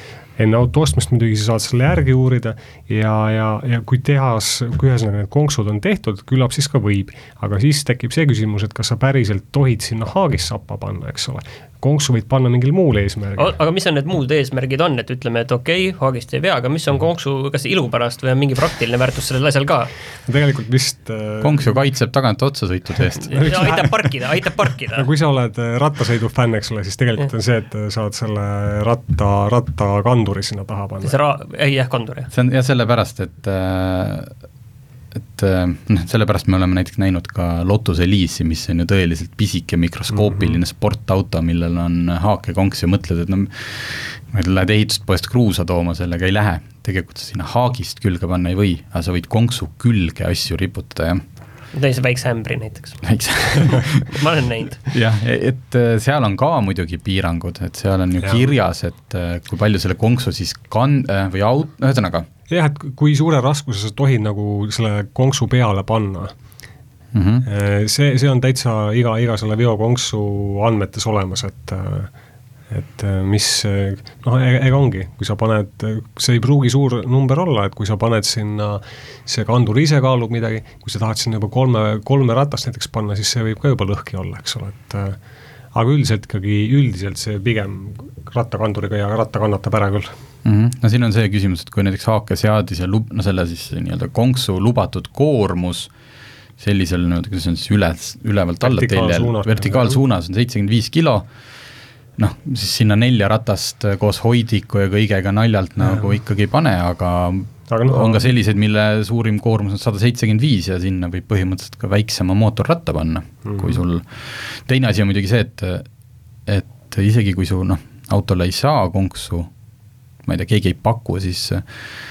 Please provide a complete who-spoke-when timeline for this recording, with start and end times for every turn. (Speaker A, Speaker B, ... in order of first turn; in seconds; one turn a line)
Speaker A: 0.4-13.5
Speaker B: 13.4-19.9
Speaker A: 20.3-21.8
Speaker C: 21.4-23.4
Speaker B: 23.3-25.1
Speaker A: 23.3-24.1
Speaker A: 24.9-31.2
Speaker B: 31.0-32.3
Speaker C: 32.3-34.3
Speaker C: 35.2-51.2
Speaker A: 40.1-40.5
Speaker B: 51.7-54.8
Speaker C: 53.0-54.2
Speaker C: 54.9-62.3
Speaker A: 58.2-58.5
Speaker A: 62.5-66.3
Speaker C: 67.1-67.5
Speaker A: 67.5-72.1
Speaker A: 72.7-85.2
Speaker A: 85.7-90.1
Speaker C: 90.4-95.9
Speaker C: 96.6-101.3
Speaker A: 98.6-100.0
Speaker C: 102.2-115.8
Speaker A: 107.7-108.3
Speaker A: 113.5-113.8
Speaker C: 116.5-119.5
Speaker C: 120.2-121.6